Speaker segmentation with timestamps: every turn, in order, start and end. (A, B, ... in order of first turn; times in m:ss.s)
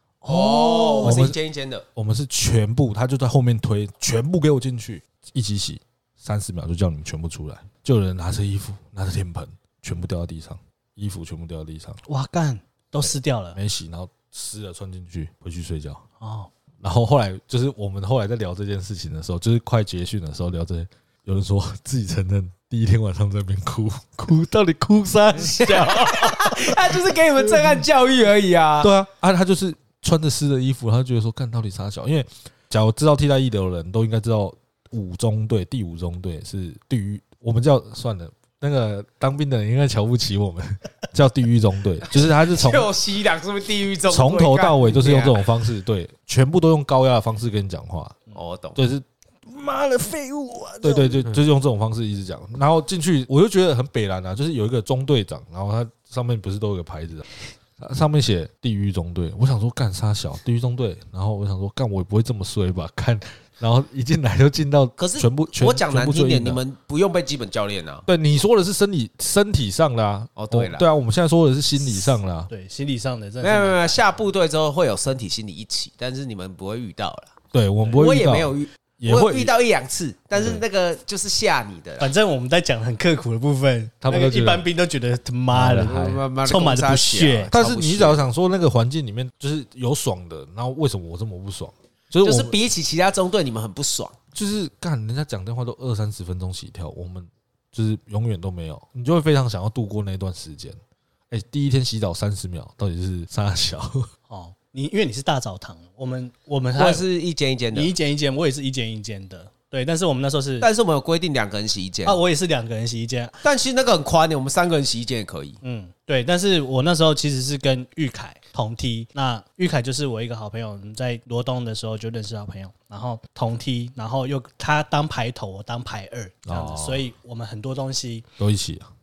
0:00.2-0:01.2 A
0:00.2-0:01.8 B
0:01.0-0:01.4 C
0:01.9-0:12.0 C
0:12.0-0:13.6 A
0:13.0-0:16.0 C
0:16.2-0:16.5 A
0:16.8-0:27.8 C
0:25.4-0:28.9 B
0:28.8-0:42.9 C
0:42.1-0:45.4 B
0:44.1-0:48.2 C
0:48.3-0:48.8 B
0:48.8-0:49.0 C
0:49.5-0:51.1 A
0:50.8-0:57.2 C
0:57.8-1:06.6 C
1:05.0-1:08.0 B
1:08.1-1:12.5 C
1:10.4-1:10.8 B
1:12.5-1:14.0 A
1:13.4-1:17.3 B
1:17.5-1:19.5 C
1:17.9-1:22.1 B
1:20.4-1:20.6 C
1:22.0-1:27.5 A
1:24.0-1:24.6 C
1:25.5-1:26.2 C
1:25.8-1:28.2 B
1:27.5-1:32.5 C
1:32.2-1:34.2 B
1:34.3-1:40.8 C
1:41.3-1:44.1 C
1:44.3-1:47.0 A
1:46.8-1:47.9 B
1:47.7-1:50.7 A
1:50.6-1:52.2 B
1:52.0-1:53.4 A
1:53.4-1:55.6 B
1:55.6-2:08.2 A
2:06.4-2:07.0 C
2:08.4-2:08.9 C